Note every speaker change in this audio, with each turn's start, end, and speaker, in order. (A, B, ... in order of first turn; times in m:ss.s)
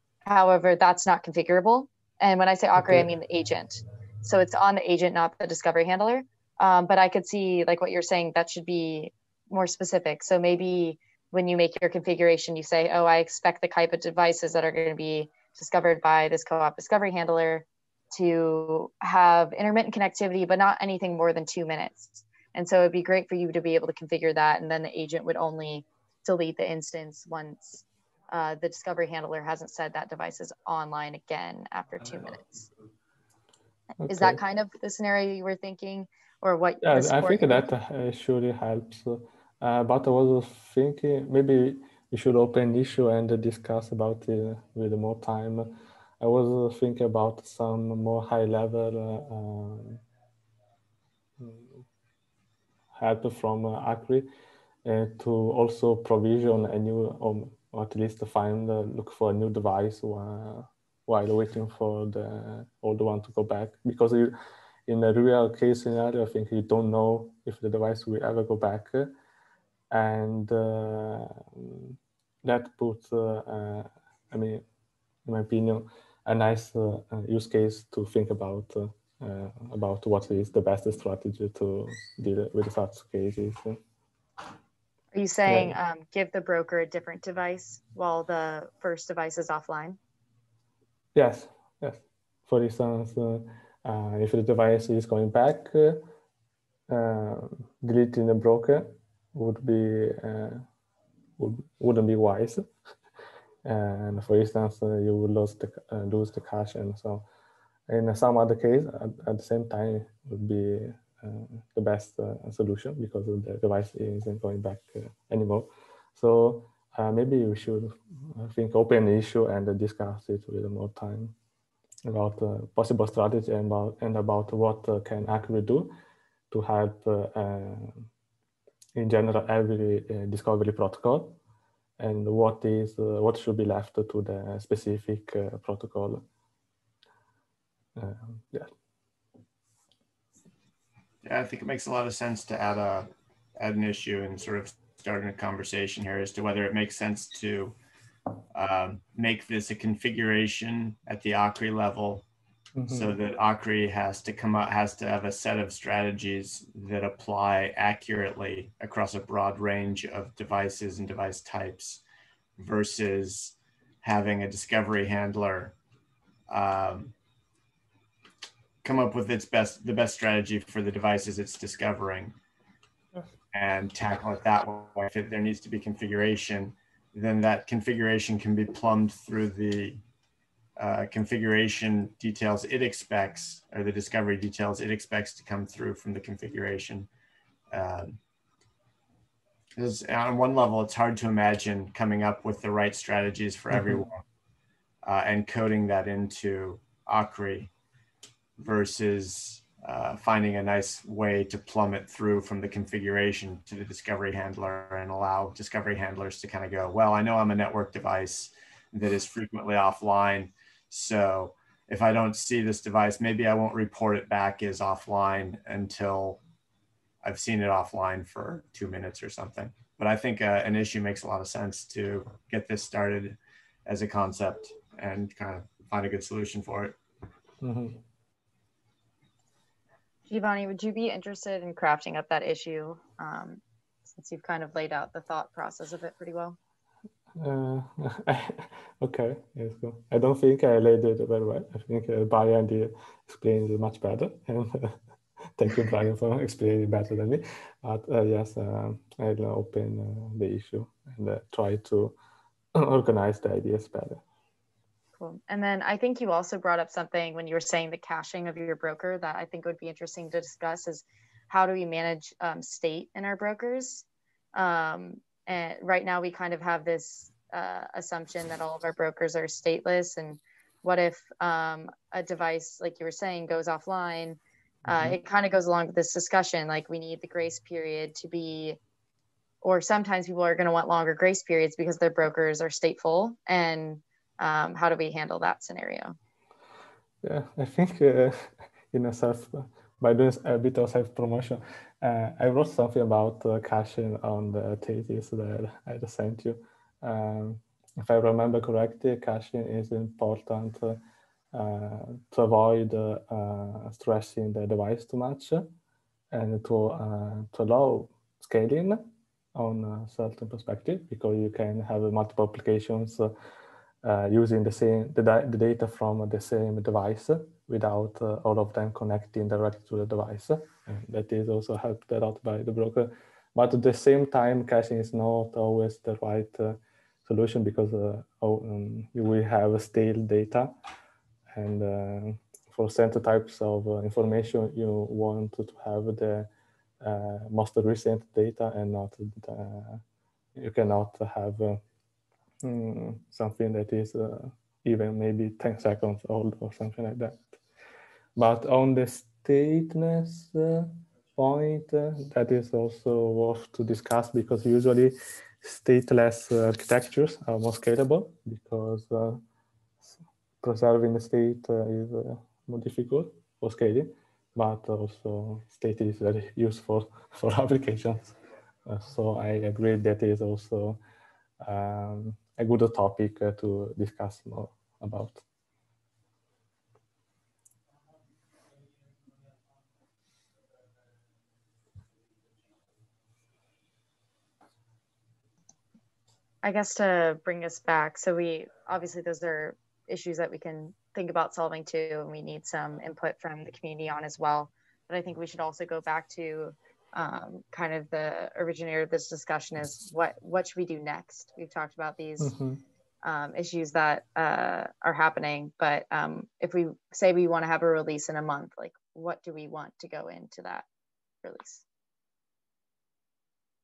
0:00.2-0:32.7 A
0:02.8-0:03.1 B
0:34.0-0:34.4 B
0:34.1-0:37.6 A
0:36.8-0:50.0 B
0:51.4-0:51.8 B
0:52.9-0:54.3 B
0:54.8-1:04.3 B
1:04.9-1:09.1 B
1:09.9-1:14.6 B
1:15.2-1:23.8 B
1:25.1-1:30.0 A
1:25.4-1:25.7 B
1:31.1-1:36.1 B
1:36.9-1:40.6 B
1:41.4-1:42.6 B
1:43.6-1:47.2 B
1:47.9-2:01.3 B
2:02.1-2:05.9 B
2:06.5-2:08.0 B
2:09.0-2:11.4 B
2:12.0-2:16.2 B
2:17.9-2:18.7 B
2:21.2-2:27.8 C
2:28.5-2:32.2 C
2:32.7-2:33.2 B
2:32.9-2:42.0 C
2:42.6-2:45.7 C
2:46.5-2:47.1 C
2:48.8-2:52.3 C
2:53.5-3:00.0 C
3:00.8-3:07.1 C
3:07.7-3:08.2 C
3:09.8-3:14.2 C
3:13.7-3:14.0 B
3:15.0-3:17.7 C
3:18.6-3:36.4 C
3:37.2-3:47.0 C
3:47.6-3:48.0 B
3:50.3-3:56.6 A
3:57.4-4:05.0 B
4:05.6-4:12.2 B
4:12.7-4:14.2 B
4:15.2-4:38.8 A
4:34.9-4:35.2 B
4:39.6-4:46.2 A
4:47.2-5:01.0 B
5:01.5-5:05.7 B
5:06.3-5:13.3 B
5:14.0-5:30.7 B
5:31.5-5:36.5 B
5:37.0-5:40.0 B
5:40.5-5:41.8 B
5:42.6-5:47.5 B
5:48.4-5:59.4 B
6:00.0-6:11.0 B
6:11.6-6:15.4 B
6:26.6-6:42.6 A
6:42.4-6:42.8 B
6:43.2-6:50.8 A
6:51.4-6:51.8 A